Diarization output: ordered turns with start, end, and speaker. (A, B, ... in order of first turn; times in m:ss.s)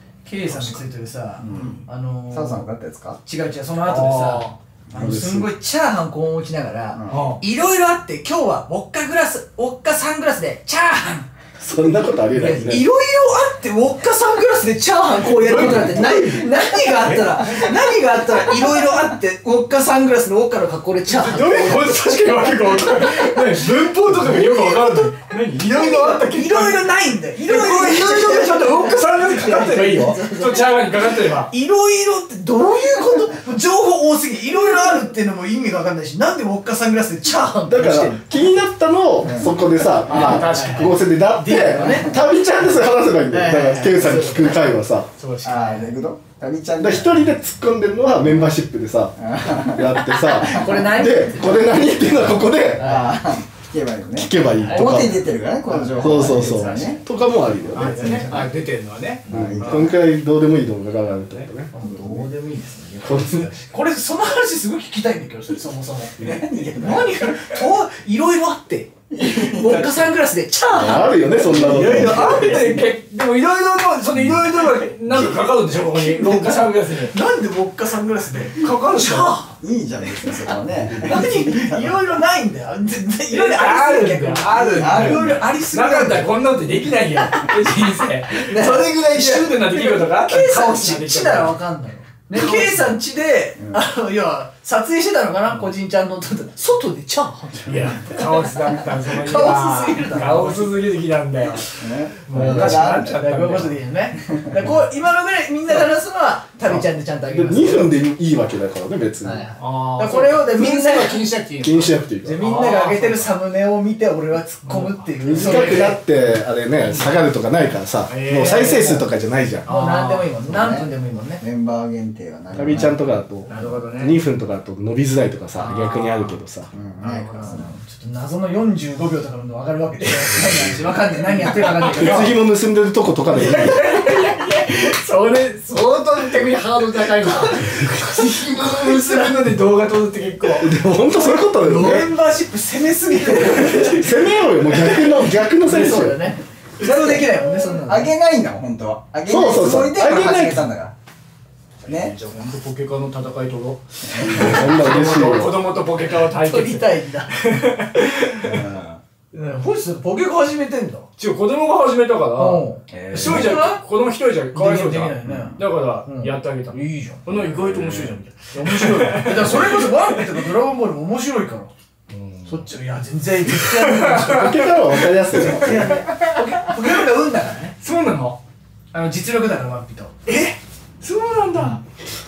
0:00.2-0:02.6 A
0:00.5-0:00.8 B
0:01.4-0:03.2 C
0:01.5-0:01.8 B
0:03.2-0:11.3 A
0:03.8-0:04.6 B
0:04.9-0:05.5 D
0:06.9-0:07.2 C
0:07.1-0:07.4 B
0:11.6-0:12.9 D
0:12.3-0:30.8 A
0:15.2-0:17.7 B
0:21.1-0:26.9 B
0:27.4-0:31.5 B
0:31.4-0:38.6 A
0:37.7-0:45.1 D
0:39.2-0:39.5 C
0:40.0-0:41.0 B
0:40.1-0:42.2 A
0:41.8-0:42.2 C
0:43.3-0:44.6 A
0:45.2-0:45.9 B
0:45.4-0:47.2 C
0:46.8-0:52.9 D
0:49.2-0:49.9 C
0:50.0-0:53.2 A
0:52.8-0:57.0 C
0:54.2-0:55.2 D
0:54.6-0:55.1 A
0:55.7-0:57.0 A
0:55.9-0:58.1 D
0:57.7-0:59.9 B
0:57.8-0:58.5 C
0:59.3-1:00.0 C
0:59.3-1:02.2 D
1:01.7-1:12.8 A
1:03.0-1:03.5 D
1:06.2-1:07.4 C
1:09.1-1:09.9 C
1:09.6-1:10.1 B
1:10.7-1:12.5 D
1:11.5-1:12.8 C
1:11.5-1:17.1 B
1:15.0-1:19.5 A
1:18.6-1:19.4 B
1:19.6-1:22.0 C
1:20.5-1:26.4 A
1:23.3-1:31.6 B
1:24.5-1:25.4 C
1:28.5-1:40.7 A
1:28.5-1:29.4 C
1:32.3-1:33.0 B
1:33.6-1:33.8 C
1:37.7-1:43.8 B
1:41.8-1:43.2 C
1:42.3-1:47.9 A
1:46.7-1:49.4 D
1:49.2-1:51.2 A
1:49.6-1:53.3 B
1:51.6-1:52.4 D
1:52.2-1:56.0 A
1:54.6-1:56.0 B
1:55.2-1:59.7 D
1:56.8-1:57.2 B
1:58.1-1:59.1 B
1:59.6-2:00.3 B
1:59.7-2:01.4 A
2:00.4-2:03.0 C
2:02.5-2:06.7 D
2:03.5-2:04.2 B
2:05.6-2:06.4 B
2:06.7-2:07.7 C
2:07.0-2:07.6 B
2:07.3-2:12.3 A
2:10.1-2:12.2 B
2:12.0-2:13.8 D
2:13.3-2:20.8 B
2:13.5-2:14.4 A
2:15.7-2:19.4 A
2:20.6-2:22.1 D
2:21.2-2:24.0 A
2:23.2-2:25.1 B
2:23.9-2:26.2 D
2:25.6-2:28.1 A
2:26.8-2:30.9 C
2:29.3-2:30.7 D
2:31.8-2:38.6 B
2:31.9-2:32.1 C
2:34.1-2:34.4 C
2:34.2-2:35.6 D
2:34.4-2:35.4 A
2:36.3-2:37.3 A
2:38.4-2:39.0 C
2:39.3-2:41.1 A
2:41.2-2:50.3 B
2:42.4-2:43.8 A
2:42.9-2:43.6 C
2:44.5-2:47.2 A
2:45.2-2:45.6 C
2:47.3-2:48.2 C
2:48.6-2:51.7 A
2:52.1-2:52.7 B
2:52.5-2:54.7 A
2:53.5-2:56.8 B
2:54.1-2:56.0 D
2:55.3-2:57.8 A
2:57.8-2:58.4 B
2:58.9-3:00.2 A
3:00.3-3:01.8 B